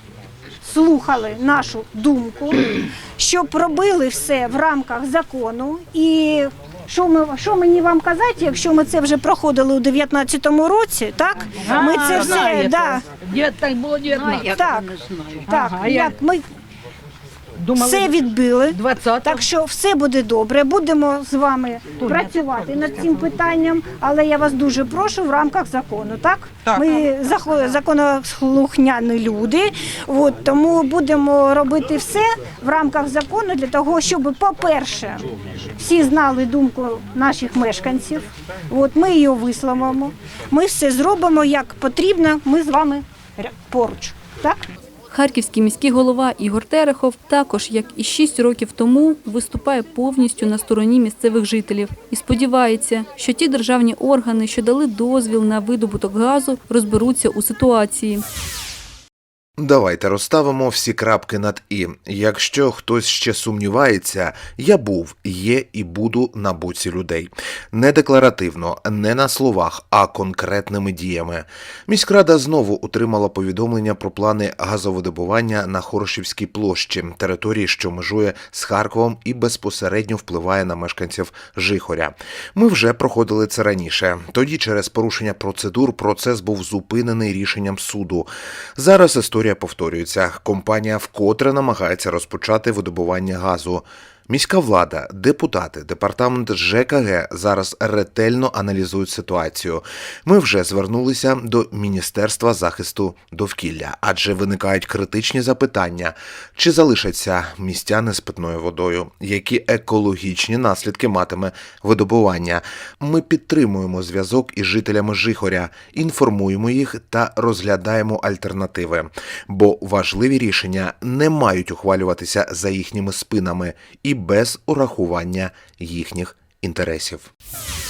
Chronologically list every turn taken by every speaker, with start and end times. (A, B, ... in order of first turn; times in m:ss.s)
0:00.6-0:13.0 A
0:11.6-0:16.1 B
0:14.1-0:16.4 A
0:17.6-0:18.1 B
0:17.7-0:35.2 A
0:18.7-0:19.4 B
0:22.0-0:22.3 B
0:35.8-0:44.6 A
0:45.1-0:58.2 C
0:59.6-2:07.3 D